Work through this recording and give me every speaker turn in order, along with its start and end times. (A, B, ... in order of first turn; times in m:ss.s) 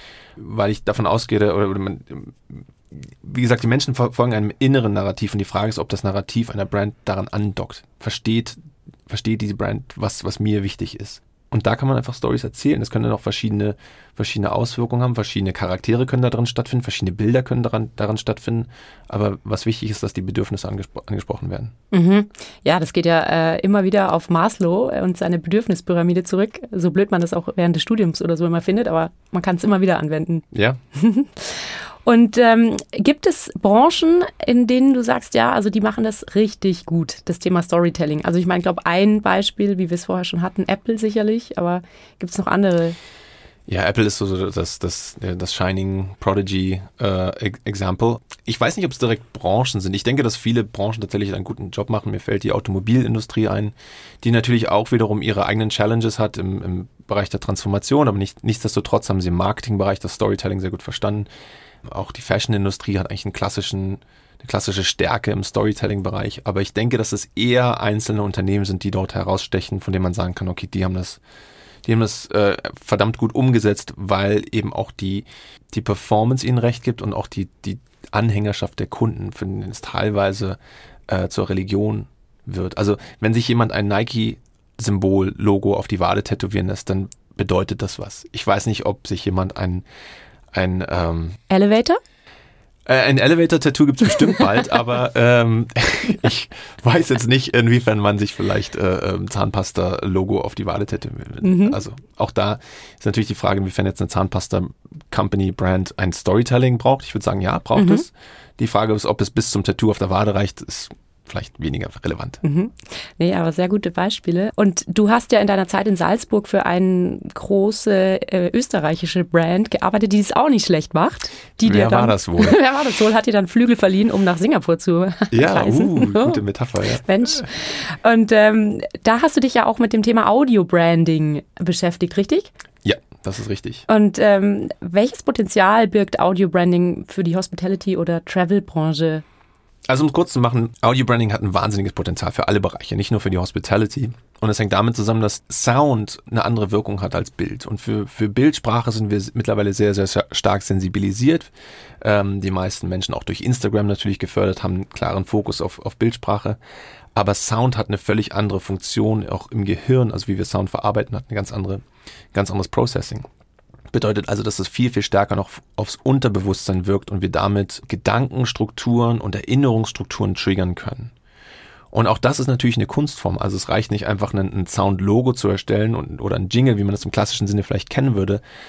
0:00.4-0:21.7 A
0:21.9-0:43.0 B
0:30.5-0:30.8 A
0:43.7-1:01.3 A
1:01.9-1:11.2 A
1:11.8-1:20.6 A
1:21.1-1:29.8 A
1:30.5-1:31.4 A
1:31.5-1:32.0 B
1:32.9-1:52.4 A
1:41.4-1:41.8 B
1:47.8-1:48.1 B
1:52.4-2:06.4 B
2:01.6-2:02.6 A
2:05.3-2:07.5 A
2:07.0-2:12.5 B
2:12.8-2:13.9 A
2:13.9-2:19.2 B
2:19.9-2:31.5 A
2:32.0-2:36.6 A
2:37.2-2:41.8 A
2:42.3-2:43.3 A
2:43.9-2:51.1 A
2:51.9-2:58.4 A